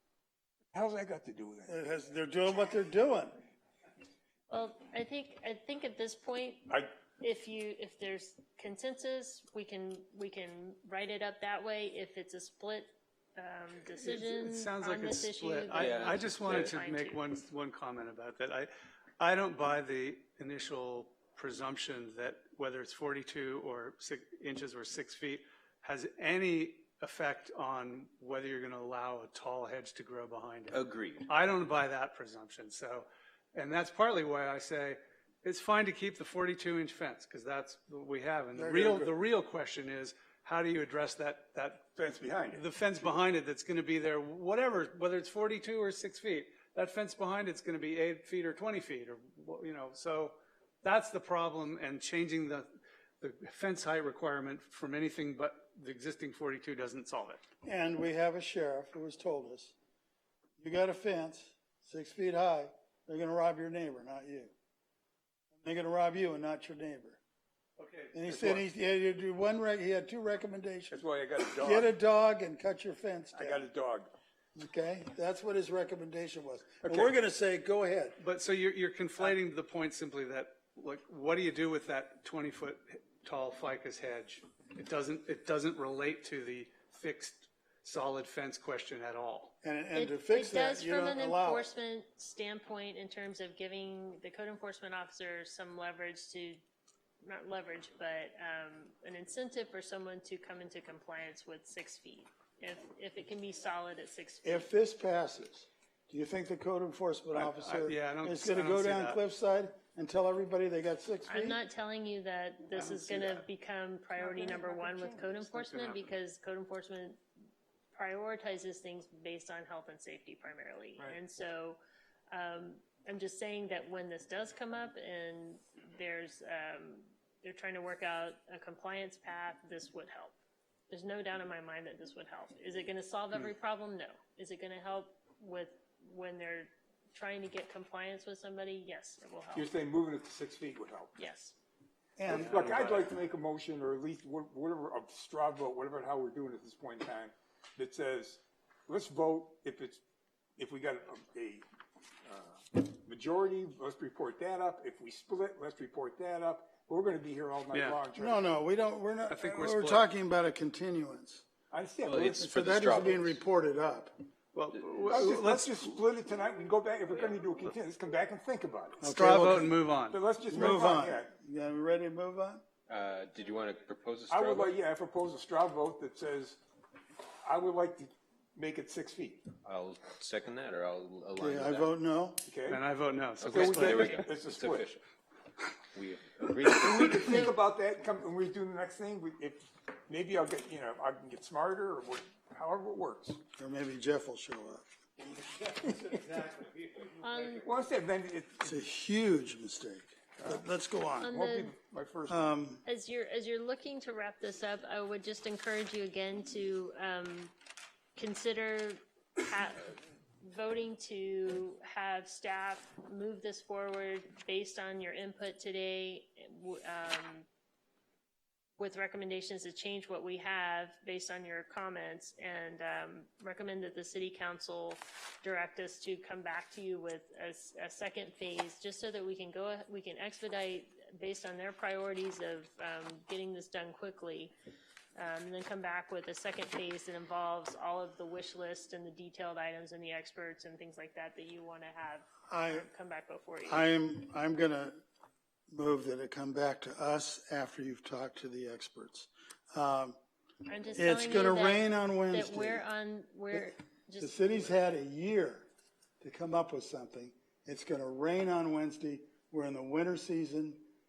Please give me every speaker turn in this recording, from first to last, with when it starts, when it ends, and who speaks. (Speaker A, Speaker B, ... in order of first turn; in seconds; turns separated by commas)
Speaker A: 0.7-1.8, Speaker B: 1.7-3.4, Speaker C: 4.5-17.2, Speaker D: 13.9-18.7, Speaker E: 15.7-16.8, Speaker D: 19.2-41.9, Speaker E: 30.7-31.3, Speaker B: 38.5-39.2, Speaker A: 42.0-43.2, Speaker D: 42.5-52.7, Speaker D: 53.2-57.4, Speaker B: 57.6-59.8, Speaker B: 60.6-64.5, Speaker B: 65.6-67.2, Speaker D: 67.8-68.2, Speaker B: 68.1-73.7, Speaker A: 68.3-68.6, Speaker A: 70.9-71.9, Speaker A: 73.3-74.1, Speaker B: 74.6-78.2, Speaker A: 76.8-77.1, Speaker D: 78.2-89.5, Speaker B: 89.6-91.7, Speaker C: 89.9-96.6, Speaker C: 97.2-104.7, Speaker B: 104.4-111.6, Speaker D: 107.3-109.2, Speaker C: 111.3-117.2, Speaker D: 112.8-113.3, Speaker A: 114.2-115.5, Speaker D: 115.5-116.0, Speaker C: 117.9-121.8, Speaker C: 122.3-130.4, Speaker C: 130.9-139.7, Speaker A: 139.5-141.1, Speaker C: 141.2-141.6, Speaker B: 142.2-142.6, Speaker A: 142.3-150.0, Speaker D: 142.3-143.1, Speaker A: 150.6-151.6, Speaker A: 152.3-158.6, Speaker D: 157.7-158.0, Speaker B: 158.2-161.5, Speaker D: 159.3-160.1, Speaker A: 161.7-162.3, Speaker E: 162.0-163.4, Speaker B: 162.2-164.1, Speaker D: 164.5-165.8, Speaker A: 165.1-169.1, Speaker B: 169.0-169.8, Speaker D: 169.0-170.2, Speaker A: 170.1-171.3, Speaker B: 170.5-172.6, Speaker E: 172.9-174.8, Speaker A: 174.3-176.6, Speaker A: 177.4-179.5, Speaker E: 179.6-181.9, Speaker B: 181.4-182.4, Speaker A: 182.4-182.8, Speaker D: 182.7-184.3, Speaker E: 183.4-185.0, Speaker A: 183.4-184.9, Speaker E: 185.9-187.4, Speaker A: 186.7-193.4, Speaker C: 187.2-187.6, Speaker B: 193.6-194.9, Speaker A: 195.8-196.4, Speaker C: 197.2-197.7, Speaker A: 197.5-198.8, Speaker B: 198.6-201.3, Speaker C: 201.2-201.8, Speaker A: 201.3-202.5, Speaker B: 202.3-202.8, Speaker C: 202.8-207.5, Speaker C: 208.2-217.5, Speaker C: 218.8-234.5, Speaker C: 235.2-243.9, Speaker B: 242.5-242.9, Speaker B: 243.7-245.0, Speaker B: 245.7-250.2, Speaker C: 250.7-254.7, Speaker B: 250.9-252.8, Speaker B: 253.5-255.7, Speaker B: 256.2-260.8